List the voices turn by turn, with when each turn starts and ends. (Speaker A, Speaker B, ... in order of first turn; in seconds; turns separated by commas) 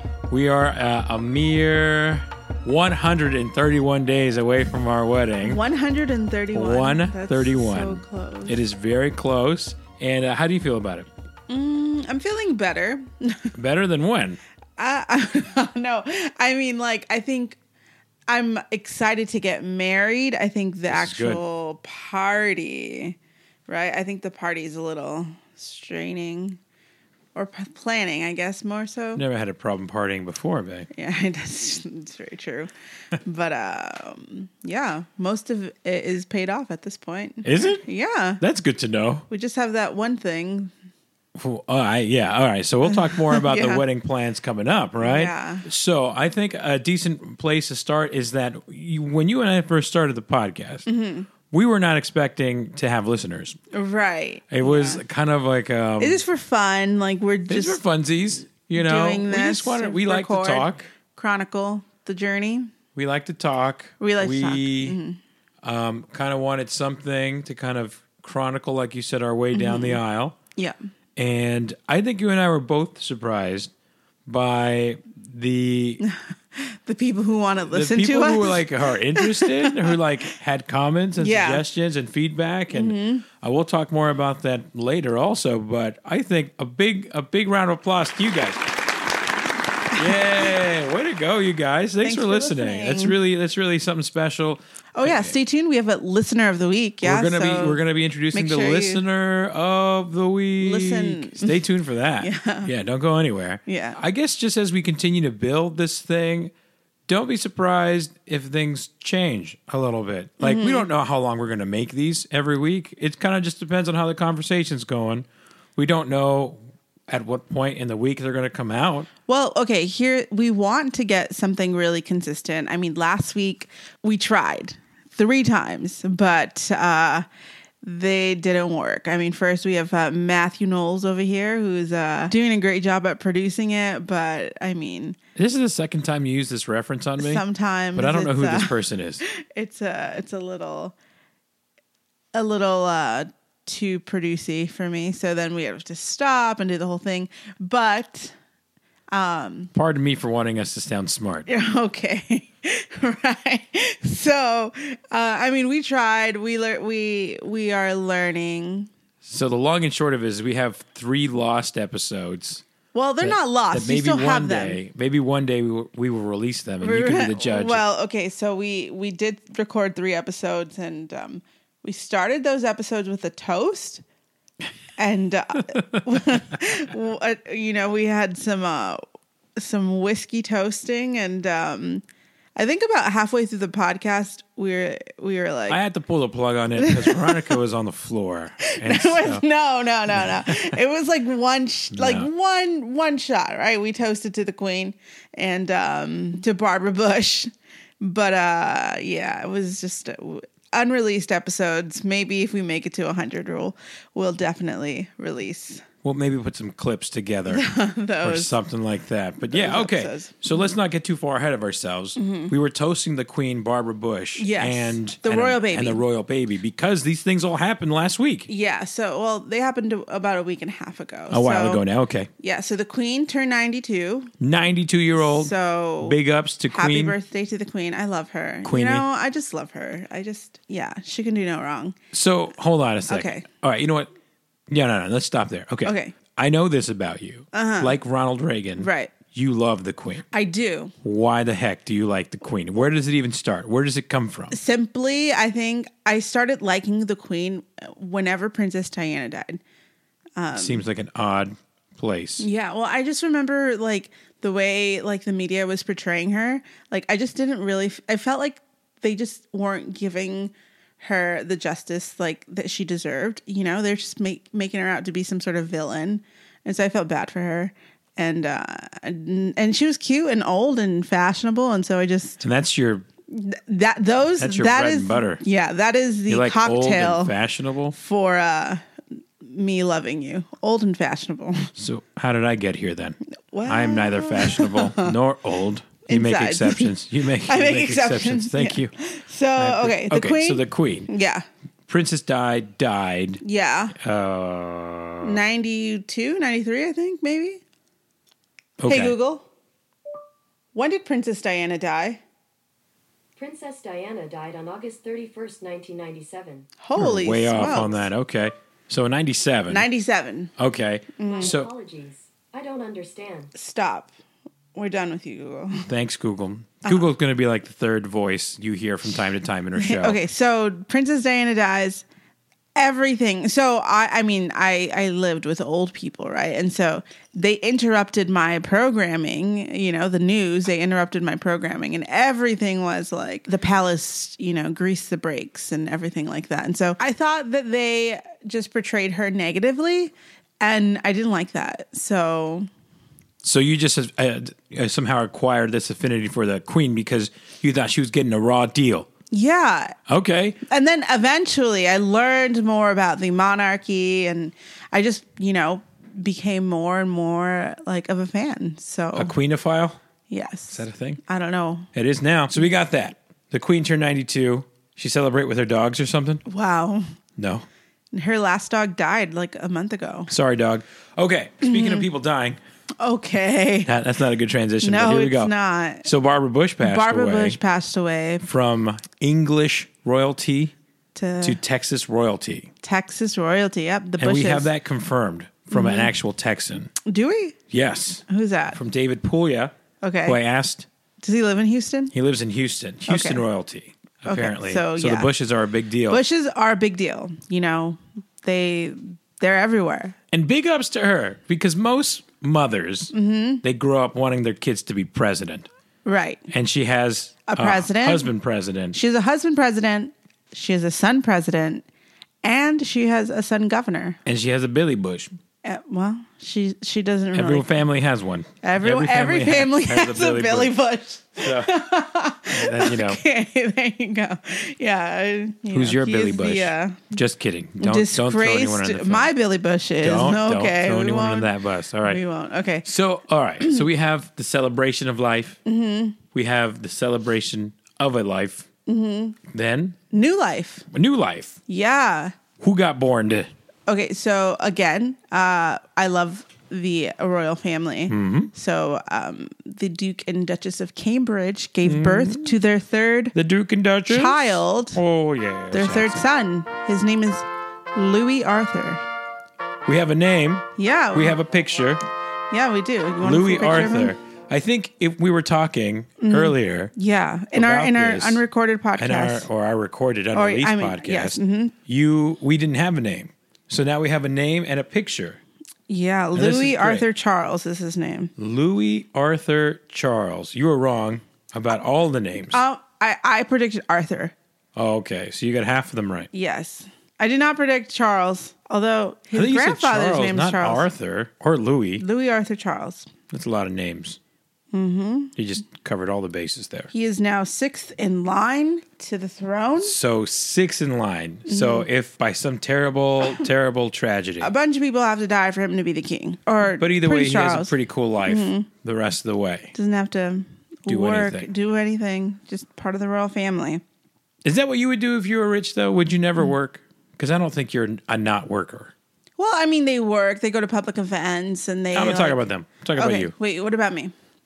Speaker A: 0.3-5.6, Speaker B: 5.4-8.6, Speaker A: 6.5-11.1, Speaker B: 11.5-13.5, Speaker A: 13.5-14.4, Speaker B: 14.8-17.6, Speaker B: 18.3-23.1, Speaker A: 20.9-21.4, Speaker B: 23.7-26.6, Speaker B: 27.3-29.2, Speaker A: 29.1-30.9, Speaker B: 30.9-32.7, Speaker B: 33.2-38.4, Speaker A: 37.4-37.8, Speaker A: 38.4-39.2, Speaker B: 39.3-40.7, Speaker A: 41.3-50.9, Speaker B: 42.8-43.8, Speaker B: 45.0-45.6, Speaker B: 50.9-51.3, Speaker A: 51.5-53.6, Speaker B: 53.7-55.0, Speaker A: 54.5-56.2, Speaker B: 56.0-57.8, Speaker A: 57.5-60.9, Speaker B: 58.6-62.7, Speaker A: 62.9-65.0, Speaker B: 64.0-65.2, Speaker A: 65.6-70.3, Speaker B: 69.5-70.0, Speaker A: 71.2-73.7, Speaker A: 74.2-76.0, Speaker B: 76.0-80.0, Speaker A: 77.7-88.6, Speaker B: 81.2-81.6, Speaker B: 82.7-83.2, Speaker B: 89.9-90.2, Speaker A: 89.9-95.3, Speaker B: 92.0-93.2, Speaker B: 95.0-97.8, Speaker A: 97.0-106.5, Speaker B: 98.3-99.0, Speaker B: 100.6-101.6, Speaker B: 102.2-102.7, Speaker B: 103.7-104.0, Speaker A: 107.1-119.1, Speaker B: 110.4-110.9, Speaker B: 119.3-127.2, Speaker B: 127.8-135.2, Speaker A: 135.3-139.2, Speaker B: 137.2-140.9, Speaker B: 142.3-148.3, Speaker B: 149.1-149.7, Speaker A: 149.7-151.5, Speaker B: 151.4-158.9, Speaker A: 159.2-162.6, Speaker B: 162.9-164.8, Speaker A: 163.2-167.8, Speaker B: 166.8-174.0, Speaker B: 175.0-182.0, Speaker B: 182.6-185.8, Speaker A: 185.7-189.4, Speaker B: 186.8-187.6, Speaker B: 188.6-205.8, Speaker A: 190.1-190.8, Speaker A: 191.9-192.3, Speaker A: 206.0-207.7, Speaker B: 207.5-208.6, Speaker A: 208.2-218.5, Speaker B: 209.5-210.7, Speaker B: 212.2-212.5, Speaker B: 214.4-216.0, Speaker B: 218.5-221.8, Speaker A: 221.3-222.3, Speaker B: 222.4-224.3, Speaker A: 224.4-227.2, Speaker B: 225.2-226.2, Speaker B: 226.7-231.9, Speaker A: 228.6-229.0, Speaker A: 232.1-234.1, Speaker B: 233.1-233.5, Speaker A: 234.7-240.2, Speaker B: 235.8-236.1, Speaker B: 237.5-238.0, Speaker B: 238.8-239.1, Speaker B: 240.3-240.9, Speaker A: 241.0-244.6, Speaker B: 244.5-249.6, Speaker B: 250.4-250.8, Speaker A: 250.5-252.5, Speaker B: 252.4-272.4, Speaker A: 272.4-273.1, Speaker B: 273.3-277.3, Speaker A: 274.4-275.4, Speaker A: 276.3-277.9, Speaker B: 277.9-278.8, Speaker B: 279.4-281.7, Speaker A: 281.8-288.9, Speaker B: 283.5-285.1, Speaker B: 286.1-291.4, Speaker A: 289.6-291.1, Speaker A: 291.9-293.4, Speaker B: 293.4-293.9, Speaker A: 293.9-295.4, Speaker B: 295.2-297.6, Speaker A: 298.8-299.1, Speaker B: 298.9-299.4, Speaker B: 300.7-302.2, Speaker C: 303.4-306.7, Speaker B: 306.8-308.1, Speaker A: 306.9-309.9, Speaker B: 309.7-310.5, Speaker A: 310.6-311.7, Speaker B: 311.2-311.6, Speaker C: 311.2-313.5, Speaker B: 313.5-314.1, Speaker B: 314.8-315.9, Speaker A: 315.8-320.2, Speaker B: 319.7-322.0, Speaker B: 322.7-342.7, Speaker A: 343.4-349.1, Speaker B: 349.3-349.9, Speaker A: 350.1-350.6, Speaker B: 350.7-359.4, Speaker A: 359.1-360.0, Speaker B: 360.3-361.9, Speaker A: 360.7-361.2, Speaker A: 361.9-366.4, Speaker B: 366.4-367.0, Speaker A: 367.4-367.6, Speaker B: 368.1-370.3, Speaker A: 370.3-372.6, Speaker B: 371.6-372.1, Speaker B: 373.0-373.9, Speaker A: 373.8-375.5, Speaker B: 374.8-376.1, Speaker A: 376.0-377.6, Speaker B: 376.8-378.4, Speaker A: 378.4-380.7, Speaker B: 381.1-381.6, Speaker A: 381.4-382.7, Speaker B: 382.8-384.7, Speaker A: 384.2-386.9, Speaker B: 385.7-386.1, Speaker B: 387.0-387.6, Speaker A: 387.7-389.7, Speaker B: 388.3-388.8, Speaker B: 390.0-390.4, Speaker A: 390.2-390.9, Speaker B: 391.2-392.1, Speaker A: 392.1-396.2, Speaker B: 393.1-393.4, Speaker B: 394.2-395.3, Speaker B: 396.1-400.2, Speaker A: 400.3-405.7, Speaker B: 403.1-403.6, Speaker B: 406.1-406.5, Speaker A: 406.5-409.0, Speaker B: 407.4-408.3, Speaker B: 408.9-411.8, Speaker B: 412.4-414.2, Speaker A: 414.2-415.3, Speaker B: 415.6-417.7, Speaker A: 417.3-420.7, Speaker B: 418.6-427.1, Speaker A: 421.4-421.7, Speaker A: 422.5-423.2, Speaker A: 425.7-429.3, Speaker B: 427.8-431.5, Speaker A: 430.0-432.2, Speaker B: 432.0-432.9, Speaker A: 432.8-435.6, Speaker B: 433.6-433.9, Speaker B: 435.6-436.2, Speaker A: 436.3-438.6, Speaker B: 438.9-439.4, Speaker A: 439.5-440.0, Speaker B: 440.1-440.9, Speaker A: 440.9-441.6, Speaker B: 441.7-442.3, Speaker A: 442.6-443.5, Speaker B: 443.9-453.4, Speaker A: 448.1-448.5, Speaker A: 451.8-452.6, Speaker A: 453.3-456.2, Speaker B: 454.1-455.0, Speaker B: 455.7-459.0, Speaker A: 459.9-462.0, Speaker B: 460.8-461.4, Speaker B: 462.5-464.1, Speaker A: 463.2-466.9, Speaker B: 466.2-469.5, Speaker A: 467.5-468.4, Speaker A: 468.9-475.4, Speaker B: 470.3-471.7, Speaker B: 475.9-478.3, Speaker A: 476.3-477.0, Speaker A: 478.4-482.6, Speaker B: 482.5-484.3, Speaker A: 484.7-486.3, Speaker B: 486.3-490.9, Speaker A: 489.3-492.0, Speaker B: 492.0-493.1, Speaker A: 493.3-494.2, Speaker B: 494.7-495.3, Speaker A: 495.4-496.9, Speaker B: 496.9-499.9, Speaker A: 499.8-504.5, Speaker B: 501.5-501.9, Speaker B: 504.4-508.7, Speaker A: 506.8-509.7, Speaker B: 509.7-513.8, Speaker A: 510.9-511.5, Speaker A: 514.4-518.9, Speaker B: 519.4-522.4, Speaker A: 521.9-523.3, Speaker B: 522.9-524.1